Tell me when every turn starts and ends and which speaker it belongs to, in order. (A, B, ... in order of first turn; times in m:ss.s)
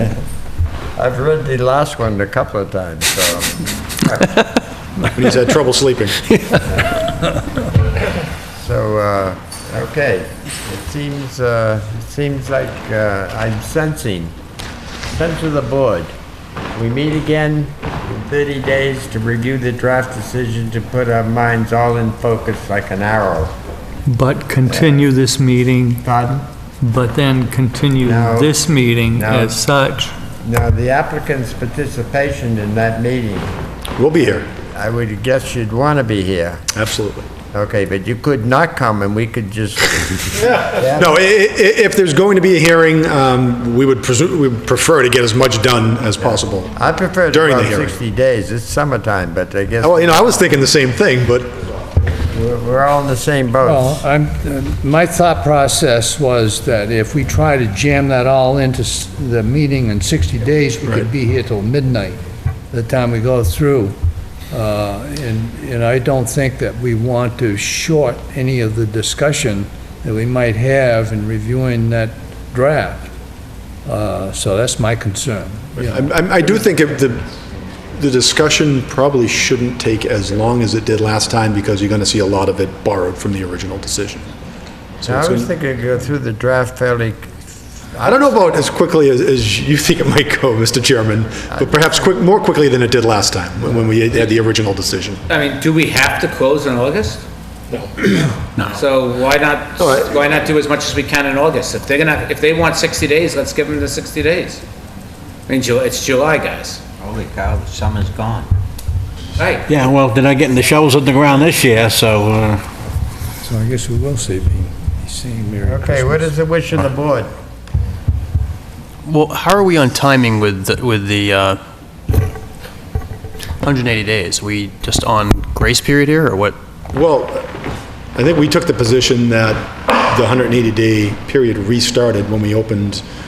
0:01.0-0:04.2 A
0:05.1-0:06.2 B
0:08.6-0:14.3 A
0:15.1-0:16.1 A
0:16.8-0:23.5 A
0:24.1-0:26.1 C
0:24.6-0:25.1 A
0:26.0-0:26.4 A
0:26.8-0:30.1 C
0:28.0-0:29.7 A
0:30.3-0:33.5 A
0:34.0-0:34.5 B
0:34.5-0:36.6 A
0:36.7-0:37.3 B
0:37.5-0:41.2 A
0:40.4-0:46.7 B
0:46.8-0:50.4 A
0:47.3-0:47.9 B
0:49.8-0:51.5 B
0:52.3-0:54.0 A
0:53.6-1:02.2 D
1:02.7-1:04.0 D
1:04.5-1:13.1 D
1:13.8-1:16.1 D
1:15.8-1:17.3 B
1:17.9-1:24.3 B
1:25.0-1:25.5 B
1:25.0-1:28.6 A
1:28.0-1:35.2 B
1:31.5-1:32.1 A
1:35.3-1:37.2 E
1:38.6-1:38.8 F
1:38.7-1:44.6 E
1:39.8-1:40.3 B
1:45.5-1:48.5 E
1:49.7-1:52.7 G
1:53.4-1:56.3 D
1:55.6-1:57.3 A
1:59.0-2:01.6 F
2:03.6-2:06.6 F
2:06.9-2:07.6 B
2:08.2-2:13.0 B